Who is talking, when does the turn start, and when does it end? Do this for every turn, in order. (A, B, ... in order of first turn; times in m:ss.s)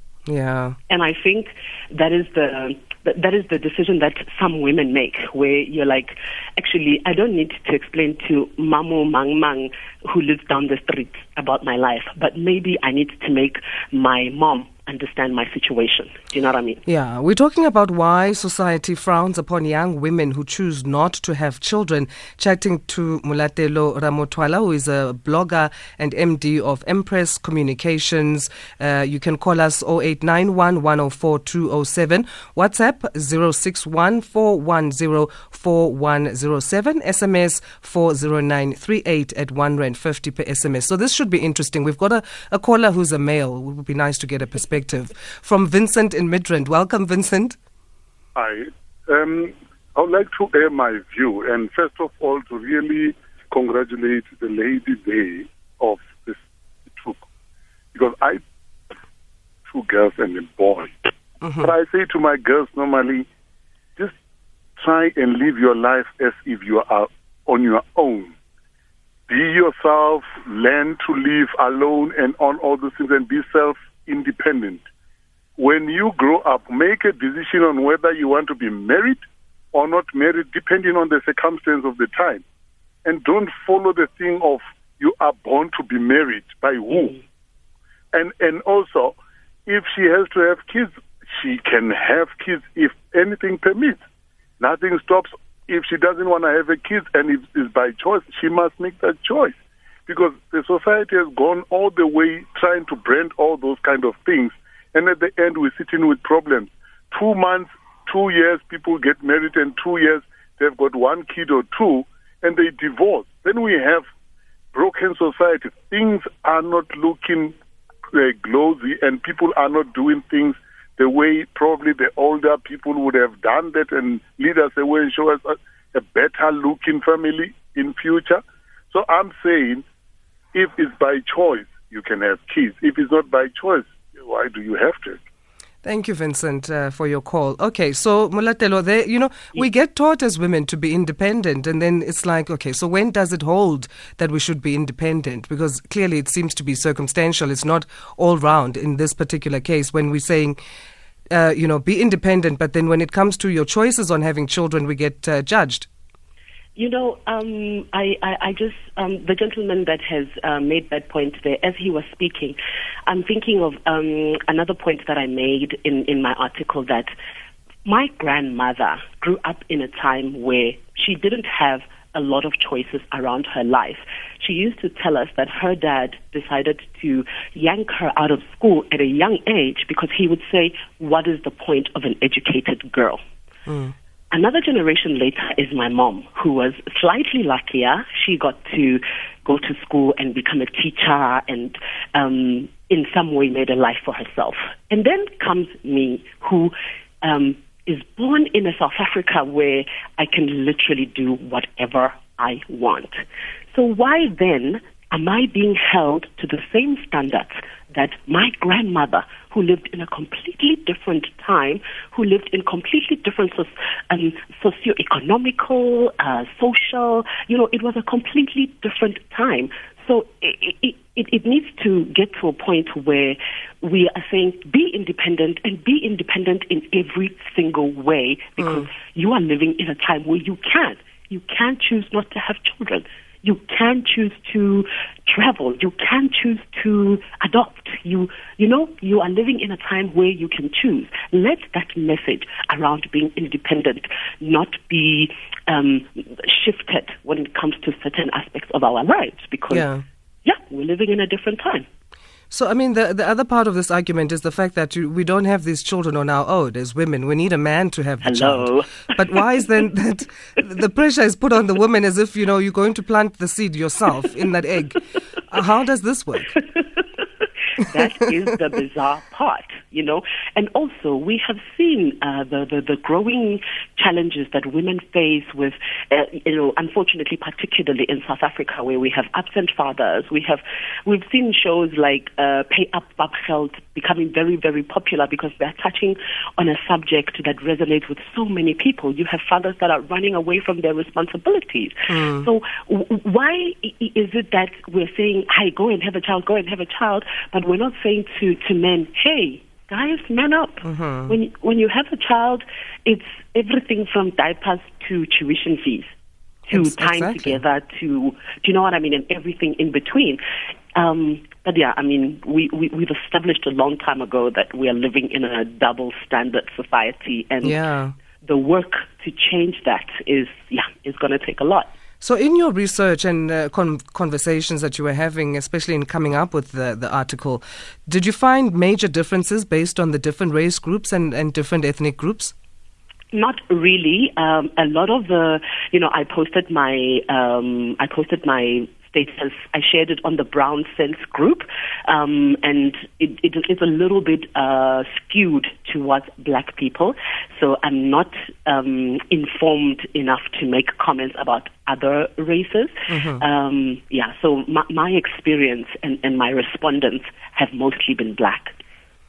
0:00.3-0:00.8 A
0:00.9-0:16.8 B
0:16.8-0:47.6 A
0:48.4-0:57.2 C
0:57.9-0:58.4 C
0:59.7-1:00.9 C
1:01.4-1:01.7 A
1:01.6-1:03.3 C
1:04.8-1:08.3 C
1:09.3-1:14.8 C
1:15.6-1:19.2 C
1:19.7-1:22.4 C
1:23.0-1:27.2 C
1:28.1-1:29.1 C
1:29.6-1:34.0 C
1:34.6-1:54.0 C
1:54.7-1:57.6 C
1:58.1-2:09.8 C
2:10.5-2:15.2 C
2:15.8-2:30.6 A
2:31.3-2:35.9 A
2:36.8-2:47.1 B
2:47.8-3:03.2 B
3:03.7-3:03.9 A
3:04.3-4:09.8 B
3:48.6-3:48.8 A
4:09.7-4:10.0 A
4:10.4-4:11.8 B
4:12.5-4:26.5 A
4:18.2-4:19.4 B
4:27.8-5:06.1 B
4:52.1-4:52.5 A
5:00.8-5:01.4 A
5:06.7-5:10.4 B
5:06.7-5:07.6 A
5:10.9-5:17.8 B
5:17.6-5:18.1 A
5:18.4-5:21.9 B
5:22.2-5:32.5 A
5:33.3-5:58.8 B
5:53.1-5:53.4 A